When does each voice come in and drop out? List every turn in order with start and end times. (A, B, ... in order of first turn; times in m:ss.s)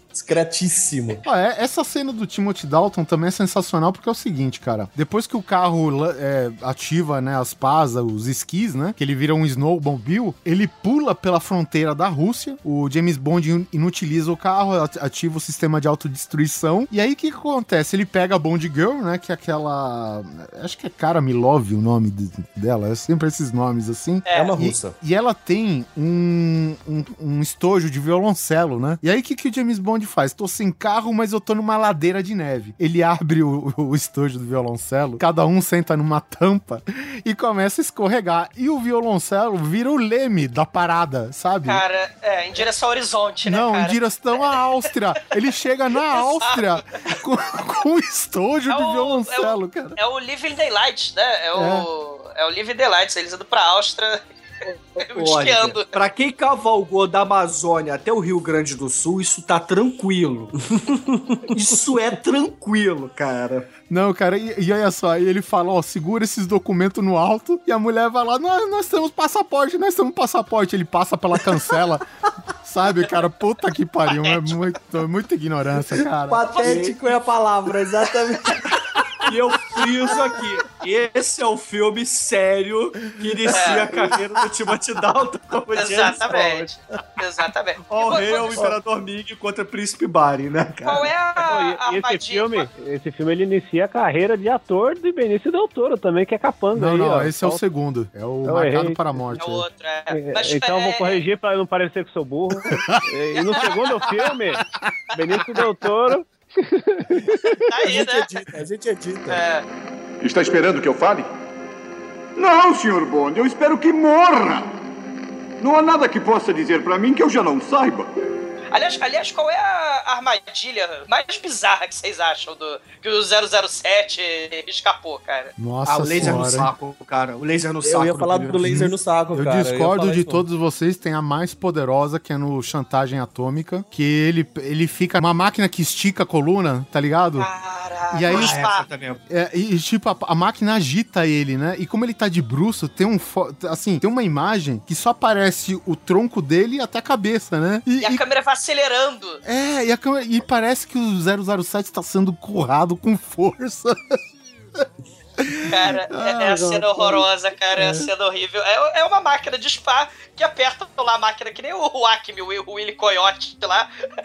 0:00.1-0:01.2 A
0:01.2-0:41.8 B
0:24.3-0:24.6 C
0:24.3-0:25.0 A
0:41.6-0:44.4 C
0:43.4-0:50.0 B
0:46.1-0:46.8 C
0:48.7-0:54.2 C
0:51.5-0:51.8 B
0:55.0-1:00.5 D
0:55.0-0:55.9 C
1:00.7-1:01.4 A
1:01.4-1:03.7 D
1:03.9-1:12.0 B
1:12.6-1:16.5 B
1:14.1-1:14.6 C
1:16.3-1:18.6 A
1:16.6-1:17.0 D
1:19.2-1:26.7 D
1:23.2-1:24.0 B
1:23.5-1:23.9 C
1:25.7-1:28.7 C
1:27.9-1:31.1 D
1:30.8-1:32.7 C
1:31.4-1:37.6 E
1:36.7-1:39.6 B
1:38.4-1:39.3 E
1:39.4-1:41.2 C
1:40.1-1:47.6 E
1:42.7-1:43.0 B
1:45.1-1:45.4 C
1:47.7-1:48.3 C
1:47.9-1:49.4 A
1:49.3-1:49.6 C
1:50.2-1:51.3 F
1:52.4-1:54.7 F
1:55.6-1:58.1 F
1:58.7-2:05.5 C
2:05.6-2:06.7 B
2:05.8-2:08.6 D
2:07.8-2:10.4 A
2:08.6-2:17.5 B
2:17.4-2:18.9 C
2:18.1-2:18.6 B
2:18.3-2:19.2 D
2:19.3-2:28.2 B
2:28.0-2:29.4 C
2:29.4-2:34.0 B
2:35.4-2:38.1 B
2:35.7-2:43.9 C